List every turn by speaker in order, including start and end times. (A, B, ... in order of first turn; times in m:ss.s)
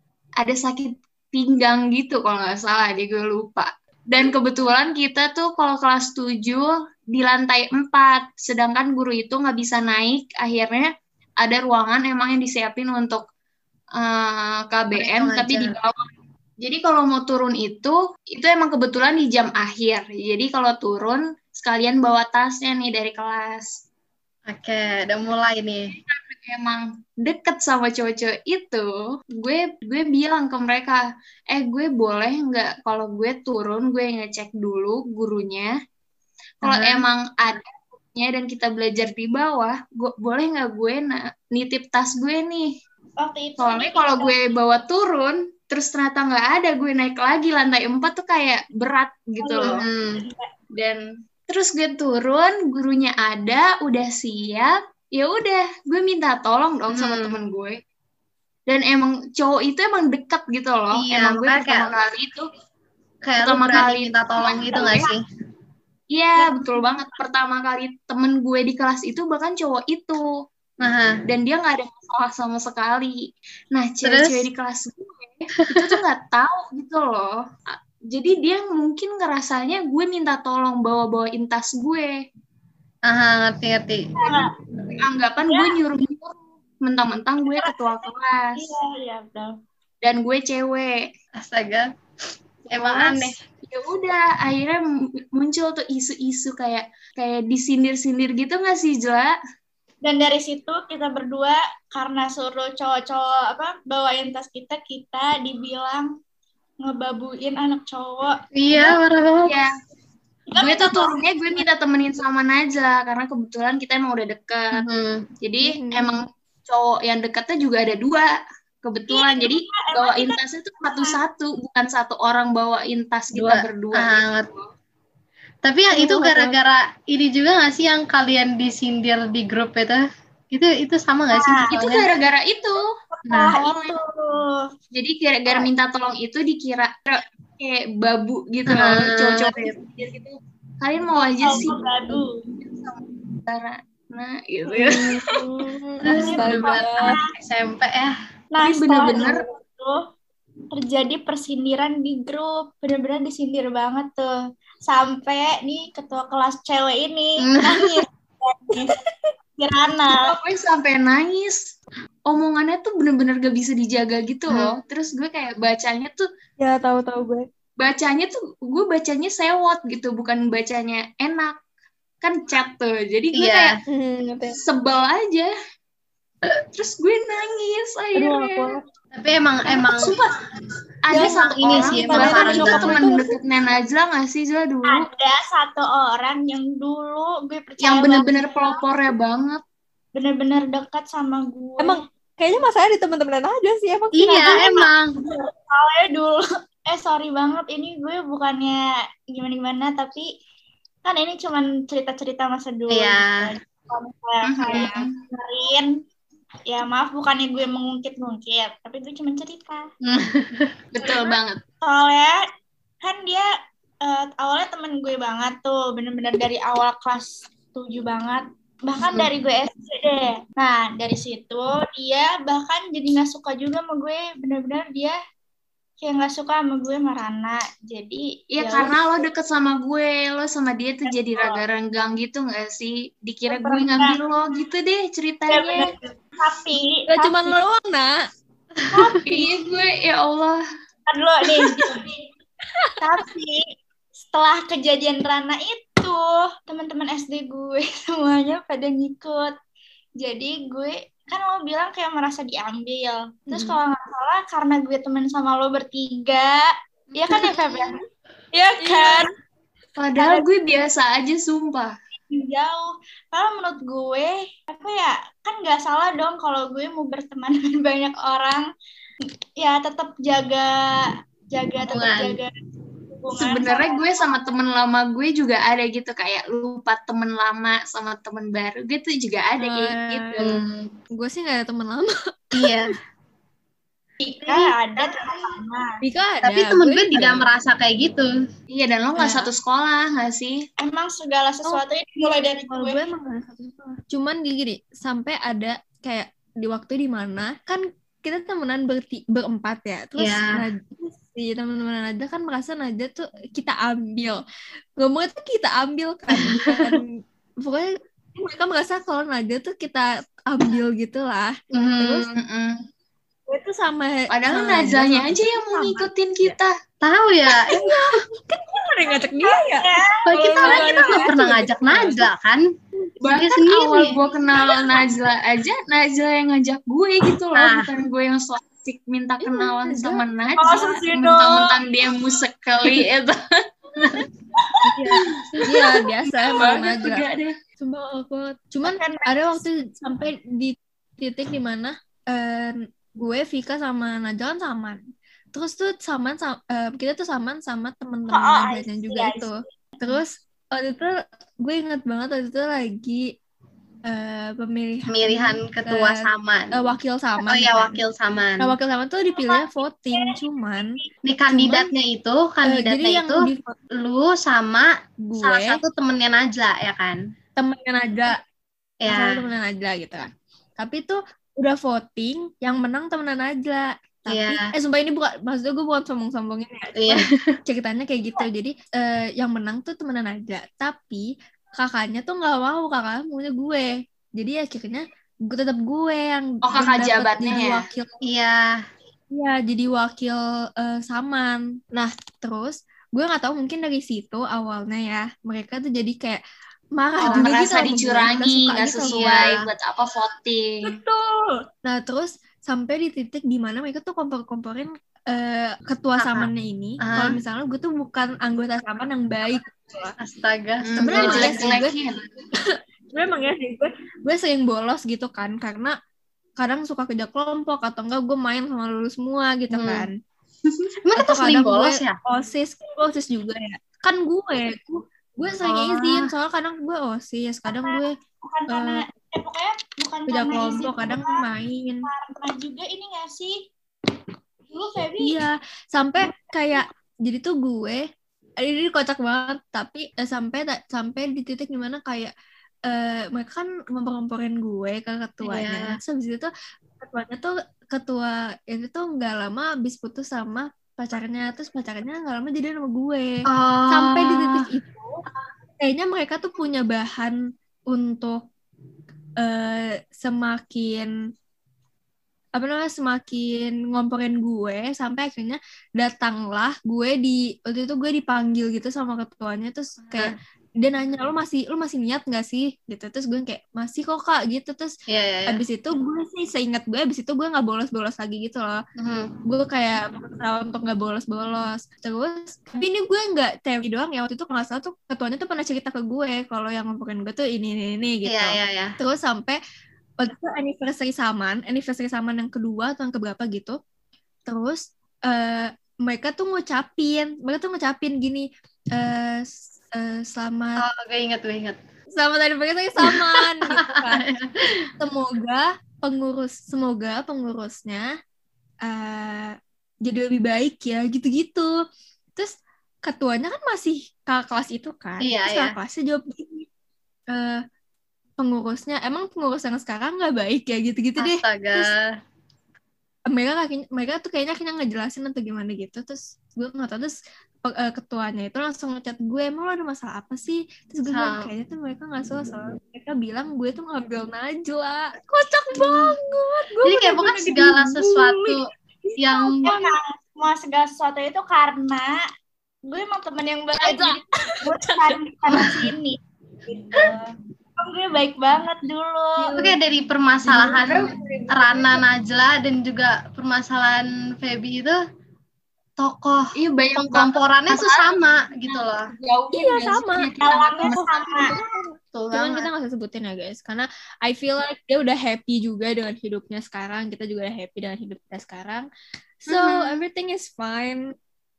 0:00.4-0:13.2 A
0:14.0-0:16.0 A
0:15.0-0:15.7 B
0:16.6-0:23.8 A
0:24.5-0:25.9 B
0:26.1-0:35.7 A
0:36.6-0:42.7 A
0:36.6-0:37.0 B
0:43.2-0:44.4 C
0:43.6-0:49.8 A
0:49.4-0:50.5 C
0:49.6-0:50.2 B
0:50.7-0:57.8 A
0:56.9-0:57.3 B
0:58.7-1:02.5 A
1:00.9-1:01.9 B
1:03.2-1:05.2 B
1:03.4-1:05.1 A
1:04.7-1:05.1 C
1:06.1-1:10.2 A
1:06.4-1:07.2 C
1:10.8-1:11.2 B
1:11.3-1:22.2 A
1:14.0-1:14.4 B
1:15.6-1:15.9 B
1:23.1-1:24.1 B
1:24.2-1:24.5 C
1:25.0-1:28.7 A
1:25.4-1:25.8 C
1:27.5-1:29.5 C
1:30.0-1:31.1 A
1:31.4-1:31.9 B
1:32.7-1:33.3 B
1:32.7-1:39.3 A
1:40.0-1:46.1 C
1:46.8-1:49.0 C
1:48.6-1:49.6 B
1:50.5-1:51.6 C
1:50.5-1:54.8 A
1:54.8-1:55.2 B
1:55.4-1:58.3 A
1:55.6-1:56.1 D
1:58.8-2:04.7 A
1:59.1-2:01.2 C
2:03.3-2:04.5 B
2:05.6-2:12.0 B
2:05.9-2:06.6 D
2:11.3-2:11.7 C
2:11.7-2:12.9 A
2:13.1-2:14.7 C
2:13.3-2:13.6 B
2:13.5-2:14.0 A
2:14.9-2:25.4 A
2:18.7-2:19.7 B
2:21.4-2:22.5 C
2:24.7-2:27.2 D
2:26.0-2:28.1 B
2:26.1-2:27.3 C
2:28.5-2:30.0 C
2:28.6-2:29.4 A
2:30.7-2:39.0 C
2:37.4-2:38.0 B
2:39.6-2:40.3 C
2:40.2-2:41.8 A
2:42.3-2:46.2 A
2:44.5-2:44.8 B
2:46.6-2:47.4 D
2:47.8-2:51.6 A
2:52.2-2:53.8 A
2:53.3-2:53.8 B
2:53.9-2:54.6 D
2:54.6-2:55.5 A
2:56.7-2:58.8 A
2:58.2-2:58.8 D
2:59.1-3:00.1 B
2:59.8-3:00.3 A
3:01.0-3:05.1 A
3:01.1-3:03.3 D
3:01.1-3:03.0 B
3:02.2-3:03.1 C
3:04.8-3:08.8 C
3:07.8-3:09.6 A
3:10.1-3:12.0 C
3:11.8-3:14.6 D
3:14.1-3:15.1 B
3:14.4-3:20.3 C
3:21.0-3:26.0 C
3:22.9-3:23.5 B
3:24.4-3:25.2 A
3:26.7-3:29.9 C
3:30.0-3:30.7 B
3:30.9-3:31.6 A
3:31.0-3:32.4 C
3:33.0-3:33.5 C
3:34.0-3:45.2 C
3:46.0-3:49.0 C
3:48.5-3:55.9 A
3:51.0-3:51.6 C
3:53.5-3:54.2 C
3:55.5-3:57.6 C
3:57.1-3:58.1 D
3:58.9-3:59.2 B
3:58.9-3:59.5 C
3:59.2-4:00.6 A
4:01.1-4:02.2 C
4:03.0-4:03.6 C
4:04.2-4:09.5 C
4:10.2-4:18.0 C
4:13.5-4:13.8 D
4:17.2-4:17.6 B
4:18.5-4:19.3 C
4:18.9-4:19.2 D
4:20.0-4:21.9 A
4:20.2-4:20.4 C
4:22.3-4:28.6 C
4:29.6-4:32.5 C
4:31.9-4:32.4 B
4:33.1-4:34.5 C
4:33.4-4:40.6 A
4:39.6-4:40.4 D
4:40.4-4:40.9 B
4:41.1-4:42.8 D
4:42.5-4:42.9 B
4:44.2-4:46.0 C
4:44.4-4:45.4 B
4:46.0-4:47.5 D
4:46.4-4:48.3 B
4:48.7-4:50.6 A
4:49.2-4:49.5 D
4:50.8-4:53.0 C
4:52.7-5:04.4 D
5:00.2-5:00.6 B
5:05.0-5:12.3 D
5:06.4-5:06.9 B
5:11.7-5:12.3 B
5:12.3-5:12.8 A
5:13.5-5:16.1 D
5:14.3-5:16.7 A
5:17.0-5:17.8 B
5:17.7-5:22.2 D
5:19.4-5:21.3 C
5:20.3-5:22.7 B
5:23.2-5:33.4 A
5:23.2-5:24.2 B
5:24.6-5:25.0 C
5:27.5-5:27.9 B
5:29.4-5:30.8 D
5:30.6-5:31.8 C
5:34.0-5:34.2 A
5:34.6-5:34.9 C
5:34.8-5:37.2 D
5:35.1-5:35.9 A
5:36.5-5:37.5 A
5:37.8-5:45.0 D
5:38.8-5:39.6 C
5:45.5-5:53.3 D
5:48.3-5:49.7 C
5:54.0-5:58.0 D
5:55.1-5:56.7 B
5:57.4-5:58.7 B
5:58.6-6:00.9 D
5:59.3-6:01.1 C
6:01.2-6:03.4 B
6:01.5-6:01.9 D
6:02.6-6:03.8 D
6:04.0-6:07.2 B
6:05.2-6:05.8 D
6:07.6-6:08.4 D
6:09.0-6:09.4 B
6:09.1-6:28.1 D
6:14.3-6:14.7 B
6:17.0-6:17.5 B
6:26.6-6:27.9 A
6:28.2-6:28.8 B
6:29.3-6:36.4 D
6:36.9-6:39.6 D
6:37.2-6:41.0 A
6:39.1-6:39.6 B
6:40.8-6:50.2 D
6:46.2-6:46.5 B
6:47.0-6:47.3 B
6:50.2-6:51.9 B
6:50.8-6:52.2 A
6:51.0-6:51.9 D
6:52.5-6:55.9 D
6:56.6-7:00.1 D
6:59.7-7:00.1 B
7:01.1-7:02.2 B
7:01.2-7:08.1 D
7:05.6-7:06.3 B
7:07.7-7:11.4 C
7:08.7-7:09.0 D
7:10.3-7:12.1 D
7:12.0-7:13.7 C
7:14.7-7:15.4 C
7:15.2-7:18.0 D
7:18.6-7:22.3 D
7:22.8-7:35.2 D
7:25.4-7:26.0 B
7:33.5-7:34.6 B
7:35.8-7:37.4 D
7:37.9-7:38.4 D
7:39.4-7:41.1 D
7:42.5-7:54.9 D
7:55.1-7:55.6 B
7:55.5-7:58.8 D
7:59.0-7:59.3 B
7:59.4-8:09.6 D
8:08.2-8:09.0 B
8:10.2-8:13.8 D
8:14.5-8:20.8 D
8:20.8-8:21.8 B
8:22.1-8:24.2 D
8:23.0-8:24.7 B
8:25.0-8:28.1 D
8:28.8-8:31.7 D
8:32.4-8:36.7 D
8:35.2-8:35.7 B
8:37.3-8:37.6 D
8:38.4-8:41.9 D
8:41.2-8:42.1 B
8:43.3-8:59.9 D
8:51.1-8:51.5 B
8:56.8-8:58.6 B
8:59.2-8:59.7 B
8:59.6-9:02.2 C
9:02.9-9:06.2 C
9:03.8-9:05.9 D
9:06.7-9:07.2 C
9:06.9-9:07.2 D
9:07.8-9:09.5 C
9:09.4-9:09.8 D
9:09.6-9:15.0 B
9:10.4-9:11.1 D
9:10.8-9:12.0 A
9:16.0-9:19.1 B
9:16.6-9:21.0 A
9:19.5-9:28.9 D
9:20.4-9:21.6 C
9:22.1-9:22.7 B
9:29.4-9:31.1 D
9:29.5-9:30.0 A